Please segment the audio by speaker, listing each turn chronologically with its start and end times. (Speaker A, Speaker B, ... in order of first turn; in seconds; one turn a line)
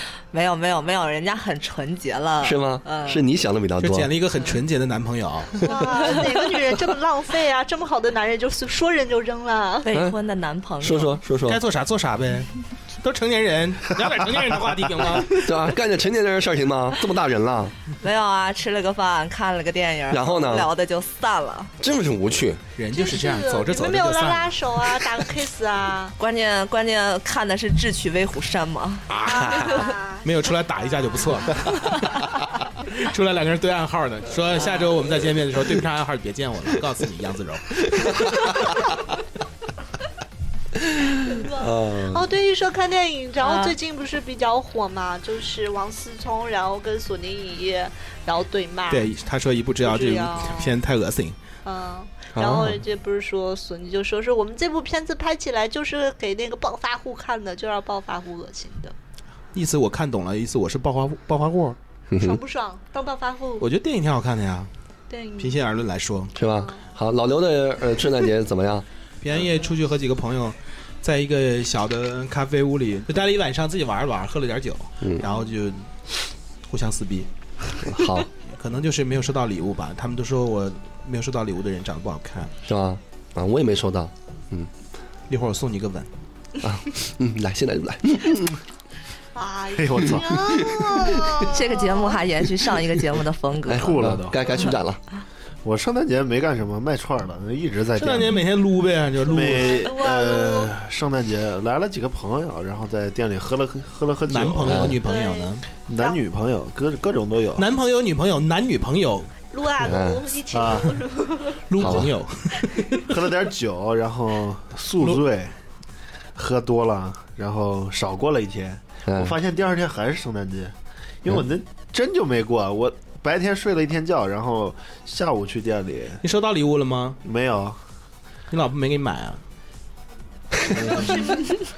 Speaker A: 0.3-3.2
Speaker B: 2.4-4.1
Speaker C: 3.8-5.7
Speaker D: 5.6-9.9
Speaker A: 9.8-11.2
Speaker B: 10.8-11.6
Speaker C: 11.4-15.7
Speaker B: 15.3-17.7
Speaker A: 18.0-21.7
Speaker B: 20.1-20.7
Speaker B: 21.8-22.6
Speaker C: 22.8-25.1
Speaker D: 22.9-26.1
Speaker A: 26.2-29.1
Speaker C: 29.1-32.3
Speaker D: 29.2-30.2
Speaker C: 32.8-38.4
Speaker B: 38.0-38.6
Speaker B: 40.9-42.3
Speaker D: 41.2-49.1
Speaker C: 48.9-51.4
Speaker D: 49.8-50.7
Speaker D: 51.6-58.9
Speaker B: 52.3-52.8
Speaker C: 59.5-61.8
Speaker B: 62.1-62.4
Speaker D: 62.1-63.7
Speaker C: 63.6-64.7
Speaker D: 65.1-65.6
Speaker C: 65.4-66.3
Speaker B: 66.3-68.8
Speaker D: 66.4-66.8
Speaker C: 69.2-75.8
Speaker C: 76.7-77.3
Speaker B: 77.8-78.3
Speaker C: 78.4-82.5
Speaker B: 82.7-84.7
Speaker C: 85.3-86.1
Speaker B: 86.6-88.6
Speaker D: 89.3-92.2
Speaker E: 89.7-90.6
Speaker B: 90.7-91.3
Speaker A: 91.5-93.9
Speaker B: 93.7-95.0
Speaker E: 93.7-94.6
Speaker E: 95.6-98.4
Speaker C: 98.0-99.9
Speaker E: 99.2-105.0
Speaker D: 99.6-100.7
Speaker C: 104.3-105.6
Speaker B: 104.7-105.0
Speaker D: 105.0-106.2
Speaker E: 105.9-107.7
Speaker C: 107.6-109.3
Speaker D: 109.5-111.6
Speaker B: 109.8-110.2
Speaker E: 110.5-111.0
Speaker C: 111.7-113.0
Speaker B: 111.8-112.1
Speaker E: 113.1-115.5
Speaker E: 116.3-120.7
Speaker B: 119.1-119.3
Speaker E: 121.2-126.2
Speaker C: 126.2-127.2
Speaker E: 127.2-127.8
Speaker C: 128.5-129.4
Speaker E: 130.8-131.2